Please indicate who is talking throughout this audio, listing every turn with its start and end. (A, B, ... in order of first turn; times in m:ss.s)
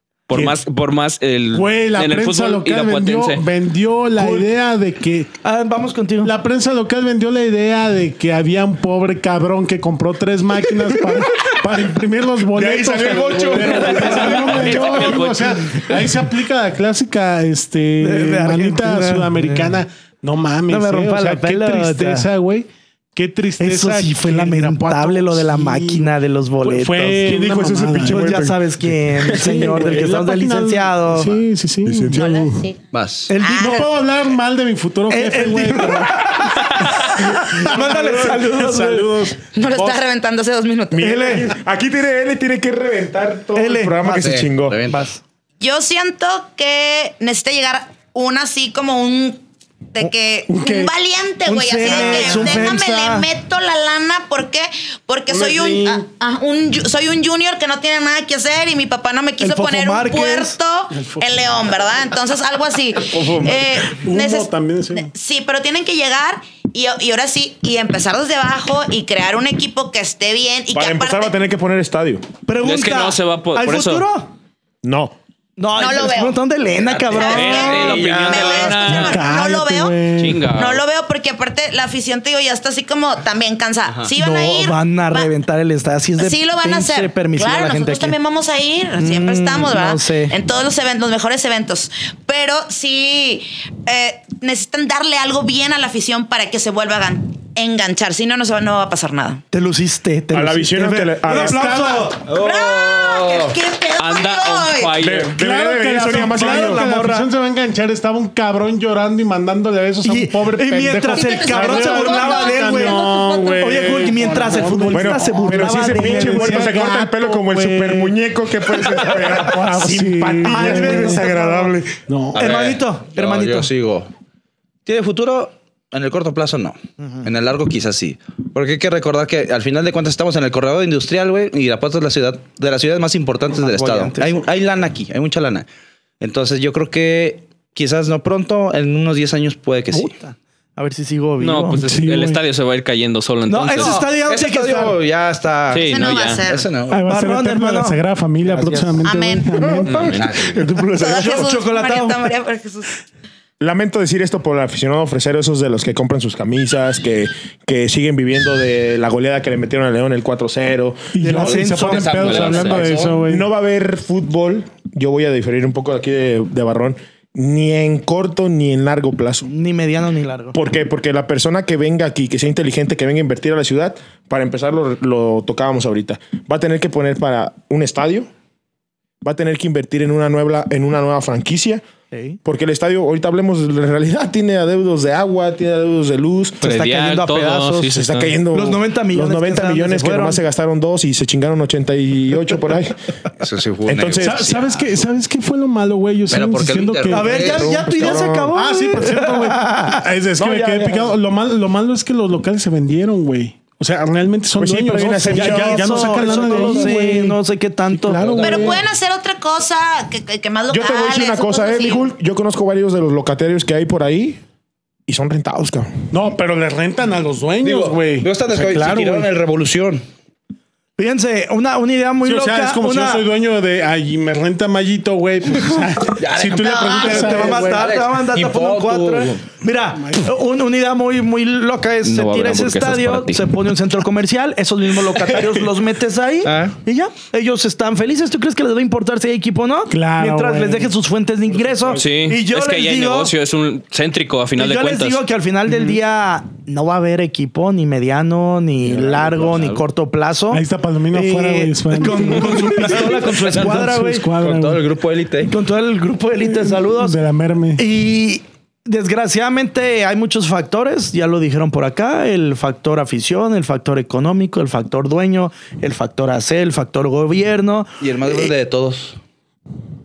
0:00.3-0:03.4 A
0:00.3-0:00.6 B
0:01.5-0:05.3 B
0:04.2-0:04.5 C
0:05.4-0:06.3 C
0:06.2-0:28.5 B
0:12.6-0:15.0 D
0:13.8-0:15.8 A
0:18.0-0:19.8 C
0:20.7-0:22.3 C
0:23.6-0:27.4 C
0:27.2-0:29.7 D
0:28.0-0:31.4 C
0:29.2-0:32.6 B
0:31.8-0:32.4 D
0:32.1-0:32.8 E
0:32.9-0:33.3 F
0:33.3-0:33.8 C
0:33.4-0:33.9 E
0:33.6-0:39.5 B
0:35.1-0:39.2 C
0:39.4-0:41.2 E
0:40.9-0:44.8 D
0:41.0-0:41.5 C
0:43.5-0:45.2 C
0:44.2-0:45.0 F
0:45.6-0:49.4 E
0:49.9-1:11.3 E
0:50.5-0:50.9 B
0:51.4-0:53.3 C
0:55.3-0:56.0 B
0:59.4-1:00.6 C
1:00.9-1:01.4 B
1:03.2-1:05.1 B
1:10.7-1:12.2 D
1:12.4-1:14.3 C
1:12.6-1:14.1 A
1:14.8-1:15.2 D
1:15.6-1:18.2 C
1:15.7-1:16.4 E
1:16.9-1:25.3 E
1:17.1-1:19.2 A
1:17.5-1:18.8 F
1:18.8-1:20.5 B
1:20.2-1:20.8 A
1:24.2-1:28.1 C
1:26.2-1:39.4 E
1:29.0-1:30.3 C
1:39.5-1:42.3 C
1:40.3-1:41.8 D
1:41.3-1:42.2 B
1:42.2-1:43.6 F
1:42.3-1:45.0 E
1:44.0-1:45.4 A
1:45.0-1:46.9 D
1:45.3-1:58.1 B
1:46.1-1:47.3 C
1:50.0-1:53.0 C
1:51.1-1:54.5 E
1:53.6-1:56.7 C
1:54.9-2:02.0 D
1:58.7-2:01.4 B
2:00.4-2:01.7 C
2:02.0-2:02.5 B
2:02.3-2:03.7 C
2:02.3-2:04.1 F
2:04.8-2:15.7 F
2:07.0-2:07.2 C
2:13.5-2:14.5 C
2:16.2-2:20.1 F
2:19.9-2:21.9 C
2:21.4-2:24.1 A
2:21.7-2:22.4 B
2:23.5-2:25.0 C
2:23.7-2:27.0 F
2:25.7-2:26.4 A
2:25.7-2:26.7 E
2:26.9-2:30.2 B
2:27.1-2:28.0 C
2:28.5-2:28.9 F
2:29.0-2:29.6 E
2:29.5-2:31.4 D
2:29.9-2:30.2 A
2:30.1-2:30.6 F
2:30.9-2:33.0 E
2:31.0-2:32.3 C
2:33.6-2:41.2 D
2:41.1-2:43.5 B
2:41.2-2:42.4 C
2:41.3-2:43.3 F
2:42.2-2:42.8 A
2:43.2-2:49.5 D
2:49.4-2:50.6 C
2:50.5-2:58.3 D
2:59.2-3:01.8 D
3:02.1-3:02.4 C
3:02.4-3:06.6 D
3:06.6-3:07.9 C
3:06.6-3:08.4 A
3:07.9-3:12.9 D
3:08.5-3:10.4 C
3:13.4-3:15.0 F
3:13.8-3:14.5 D
3:14.2-3:17.8 B
3:16.3-3:18.2 F
3:17.1-3:20.0 C
3:17.8-3:18.5 D
3:18.5-3:27.4 B
3:20.4-3:21.1 D
3:24.6-3:26.9 D
3:25.3-3:28.3 C
3:27.9-3:28.8 B
3:28.2-3:28.8 F
3:28.4-3:32.1 E
3:30.7-3:34.4 D
3:35.1-3:35.9 D
3:36.1-3:39.3 B
3:37.6-3:40.0 F
3:41.0-3:43.2 C
3:42.2-3:47.9 B
3:46.2-3:49.5 F
3:46.9-4:03.3 C
3:50.0-3:50.3 B
3:52.0-3:53.7 A
3:56.4-3:56.7 F
3:59.9-4:00.9 B
4:02.0-4:05.2 A
4:04.6-4:14.3 C
4:08.8-4:09.8 F
4:10.5-4:14.9 B
4:12.8-4:13.8 F
4:14.3-4:15.5 F
4:15.5-4:17.2 C
4:16.7-4:17.8 B
4:17.8-4:28.5 C
4:28.0-4:29.2 F